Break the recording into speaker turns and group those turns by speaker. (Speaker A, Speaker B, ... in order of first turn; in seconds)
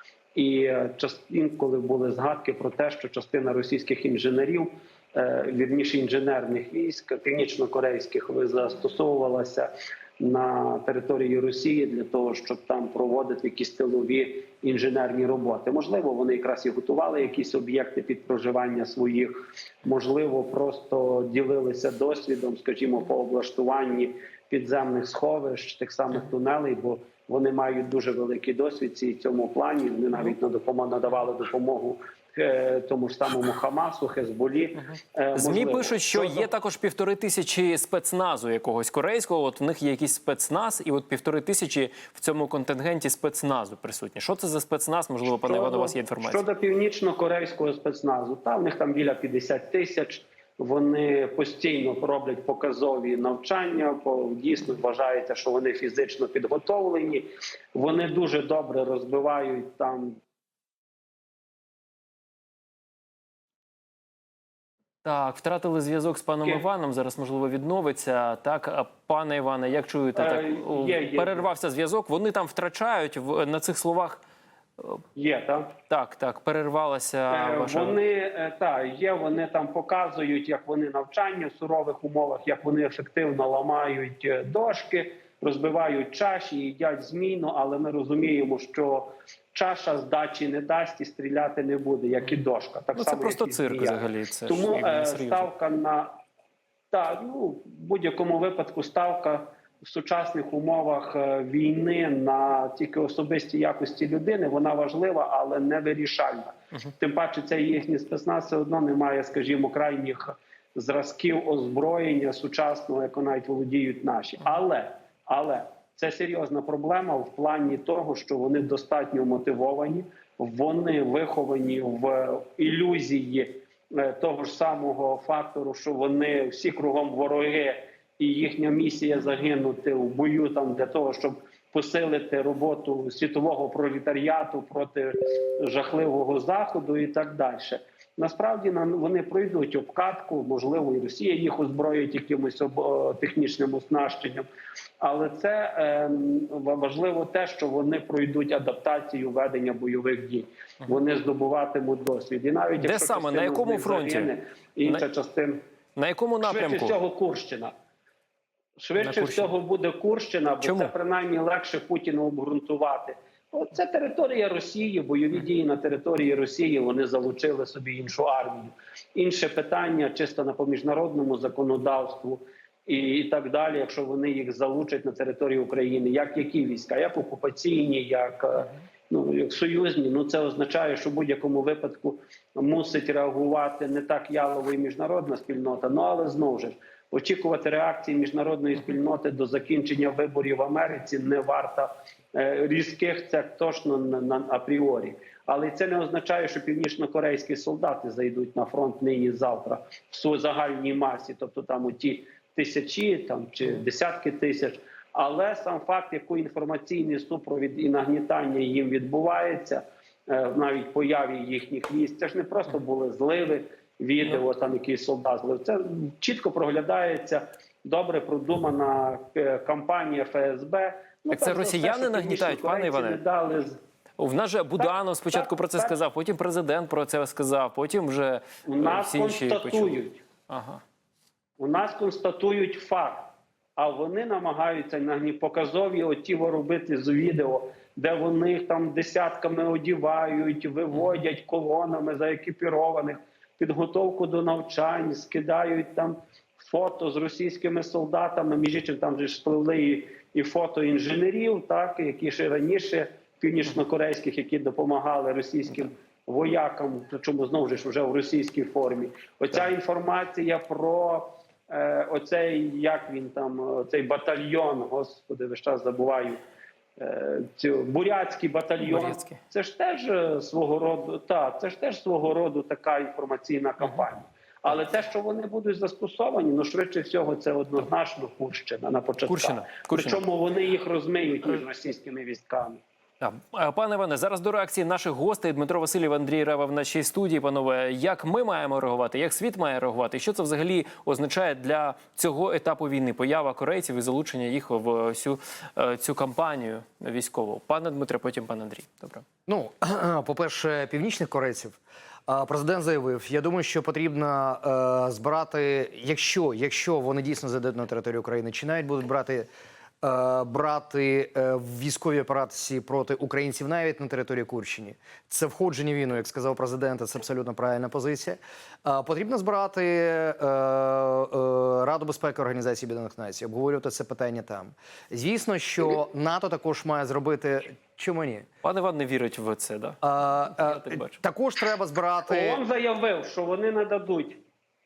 Speaker A: 0.3-36.5, 45.3-60.2, 70.2-71.5, 75.2-75.8, 77.3-96.2, 96.9-144.5, 145.0-155.6, 156.4-157.7, 158.8-223.8, 224.8-225.9, 228.7-230.2, 231.6-266.4, 267.0-282.8, 332.3-334.4
Speaker B: 35.4-46.4, 65.0-74.2, 75.9-78.0, 92.9-95.5, 152.8-154.3, 156.0-157.0, 159.0-159.5, 160.6-160.9, 221.3-223.2, 224.2-230.8, 268.8-269.4, 279.3-280.2, 283.2-299.2, 328.6-331.2
Speaker C: 299.5-309.5, 310.0-328.5, 330.0-332.6